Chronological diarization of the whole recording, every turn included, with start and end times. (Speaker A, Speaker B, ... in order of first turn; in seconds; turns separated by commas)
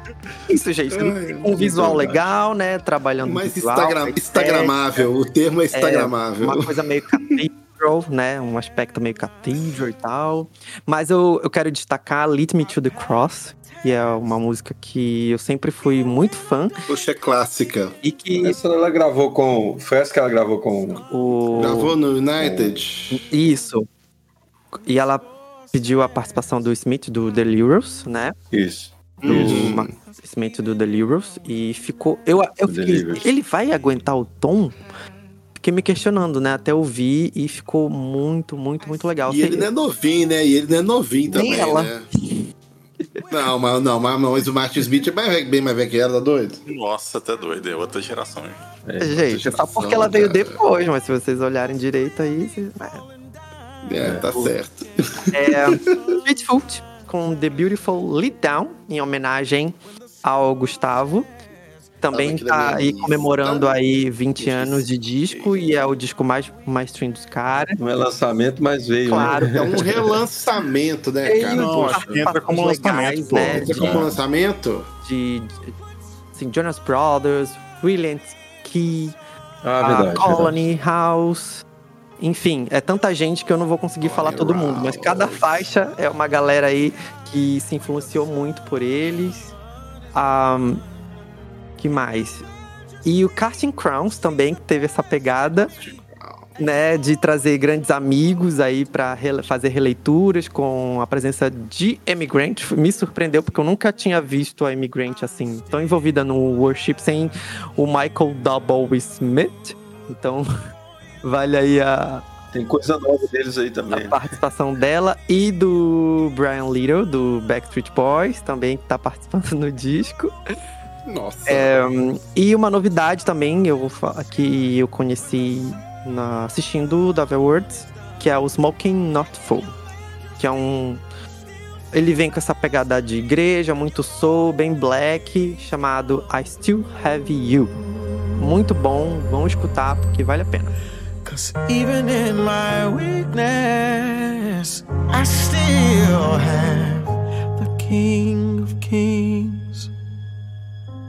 Speaker A: 0.5-5.0, Speaker B: 0.9-2.2, Speaker B: 3.2-6.7, Speaker A: 5.7-16.7, Speaker B: 16.9-17.9, Speaker A: 18.0-18.6, Speaker C: 18.4-21.0, Speaker A: 21.1-21.9, Speaker B: 21.6-23.2, Speaker C: 22.4-22.8, Speaker A: 23.1-23.9, Speaker A: 24.9-28.3, Speaker C: 28.5-29.8, Speaker B: 29.2-29.9, Speaker A: 29.2-34.8, Speaker C: 32.7-33.3, Speaker A: 35.6-39.7, Speaker B: 39.3-42.0, Speaker A: 41.3-41.9, Speaker B: 43.3-46.6, Speaker D: 46.7-48.6, Speaker C: 48.8-49.2, Speaker A: 49.0-53.0, Speaker B: 49.2-50.5, Speaker B: 53.9-56.0, Speaker C: 54.0-54.5, Speaker A: 55.3-61.3, Speaker A: 62.0-67.8, Speaker B: 62.1-63.7, Speaker B: 64.4-65.5, Speaker C: 67.8-70.1, Speaker A: 69.0-69.8, Speaker B: 69.1-72.3, Speaker A: 71.2-73.8, Speaker D: 71.5-74.1, Speaker B: 73.5-74.9, Speaker C: 73.7-74.1, Speaker A: 75.0-75.7, Speaker A: 76.3-79.2, Speaker C: 79.6-80.6, Speaker A: 79.8-81.6, Speaker A: 82.2-89.5, Speaker B: 84.0-85.7, Speaker A: 90.1-90.8, Speaker A: 91.8-92.4, Speaker A: 93.0-95.7, Speaker B: 95.6-96.5, Speaker A: 96.6-110.5, Speaker A: 111.2-112.2, Speaker C: 112.5-114.2, Speaker A: 113.9-120.3, Speaker B: 121.1-121.8, Speaker A: 121.5-129.7, Speaker A: 130.4-131.0, Speaker A: 131.9-137.7, Speaker A: 138.4-140.7, Speaker E: 141.2-149.9